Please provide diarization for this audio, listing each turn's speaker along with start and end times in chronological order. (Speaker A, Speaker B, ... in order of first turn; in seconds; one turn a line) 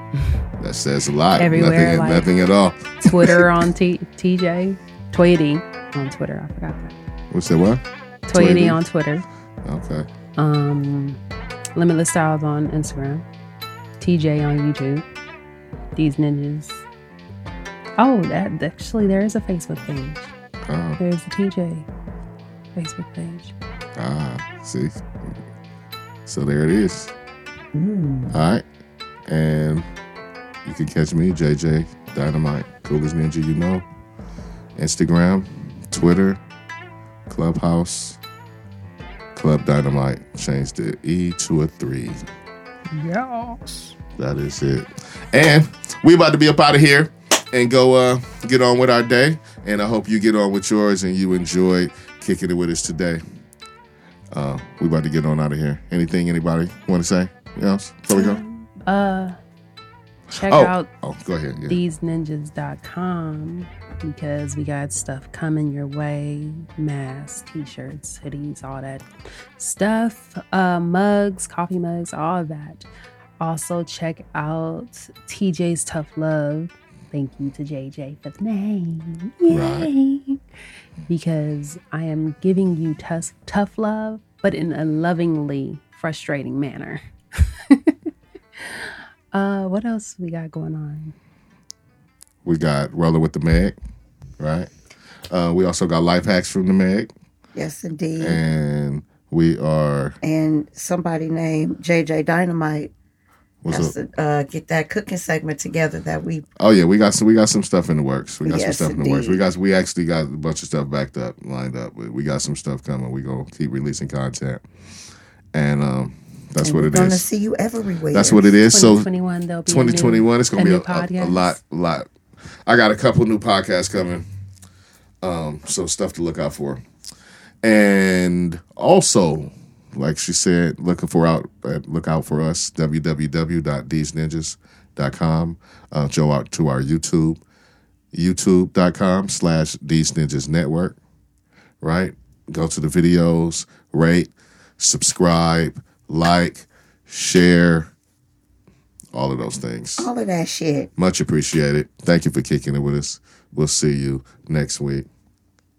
Speaker A: 0.6-3.0
Speaker B: 1.3-2.3
Speaker B: 3.0-6.9
Speaker A: 7.3-7.8
Speaker B: 8.3-9.2
Speaker A: 8.3-8.8
Speaker A: 9.6-10.1
Speaker B: 10.4-11.2
Speaker B: 11.7-13.2
Speaker B: 14.0-15.0
Speaker B: 15.9-16.8
Speaker B: 18.0-20.3
Speaker A: 20.7-21.0
Speaker B: 21.0-21.9
Speaker B: 22.7-23.5
Speaker A: 23.9-25.0
Speaker A: 26.3-27.1
Speaker C: 27.7-28.3
Speaker A: 28.3-28.6
Speaker A: 29.3-29.9
Speaker A: 30.6-33.8
Speaker A: 34.8-36.4
Speaker A: 37.3-38.2
Speaker A: 39.3-42.2
Speaker B: 42.9-43.9
Speaker A: 44.2-53.2
Speaker A: 54.3-58.4
Speaker C: 58.1-58.6
Speaker B: 58.9-59.4
Speaker A: 60.3-61.8
Speaker B: 60.3-60.9
Speaker B: 61.6-69.0
Speaker B: 69.6-72.8
Speaker B: 73.4-80.4
Speaker A: 79.5-79.9
Speaker B: 81.1-87.9
Speaker B: 88.6-91.1
Speaker A: 92.4-93.7
Speaker A: 94.4-94.7
Speaker A: 95.3-97.1
Speaker C: 97.5-98.4
Speaker A: 98.2-100.2
Speaker C: 100.2-102.9
Speaker A: 103.6-103.9
Speaker C: 103.7-106.4
Speaker A: 106.6-114.6
Speaker C: 108.4-109.4
Speaker A: 115.5-117.2
Speaker C: 116.6-118.5
Speaker A: 118.1-119.1
Speaker B: 118.7-121.6
Speaker A: 119.7-122.1
Speaker A: 122.7-124.2
Speaker A: 125.2-126.8
Speaker A: 127.6-137.4
Speaker A: 138.1-141.0
Speaker A: 141.8-147.9
Speaker A: 149.1-150.1
Speaker C: 150.0-150.9
Speaker A: 151.0-155.1